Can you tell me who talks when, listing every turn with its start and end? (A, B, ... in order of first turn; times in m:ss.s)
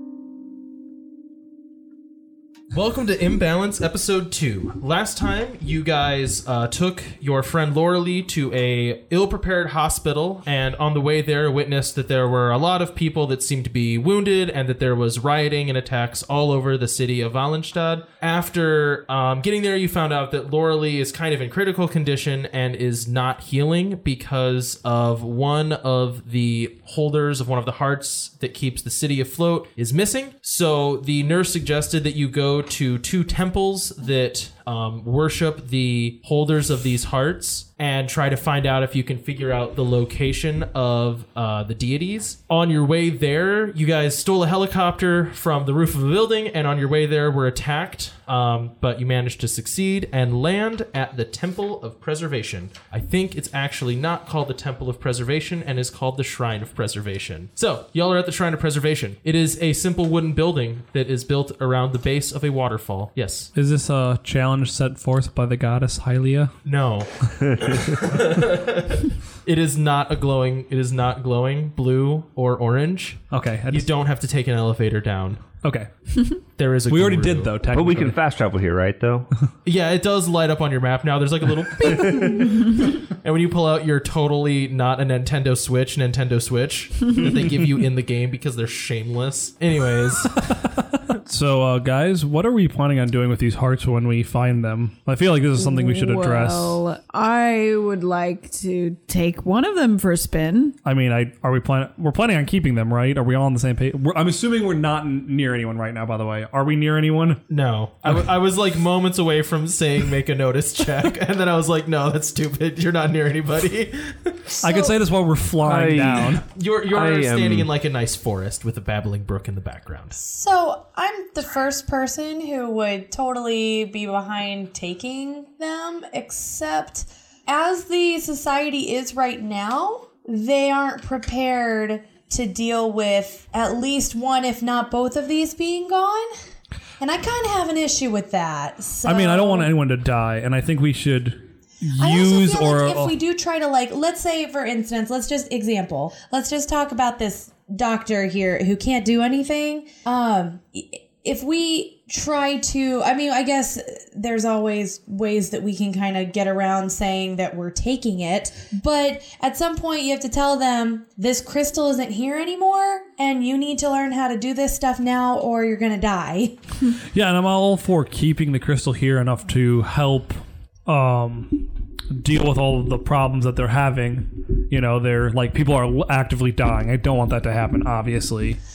0:02.7-1:03.5 A
1:03.5-1:06.5 B
1:06.6-1:15.5 A
1:07.4-1:08.0 C
1:13.3-1:13.9 B
1:15.6-1:18.2 B
1:16.6-1:17.5 A
1:17.7-1:19.3 C
1:19.6-1:30.5 A
1:21.9-1:22.5 C
1:30.3-1:36.8 B
1:35.6-1:40.8 D
1:40.8-1:47.4 B
1:47.5-1:54.6 A
1:54.6-1:56.5 B
1:54.6-1:55.0 E
1:55.6-1:57.7 C
1:56.5-2:00.2 A
2:00.2-2:16.3 E
2:17.0-2:19.7 E
2:19.0-2:23.1 B
2:22.0-2:46.6 E
2:47.1-2:58.6 B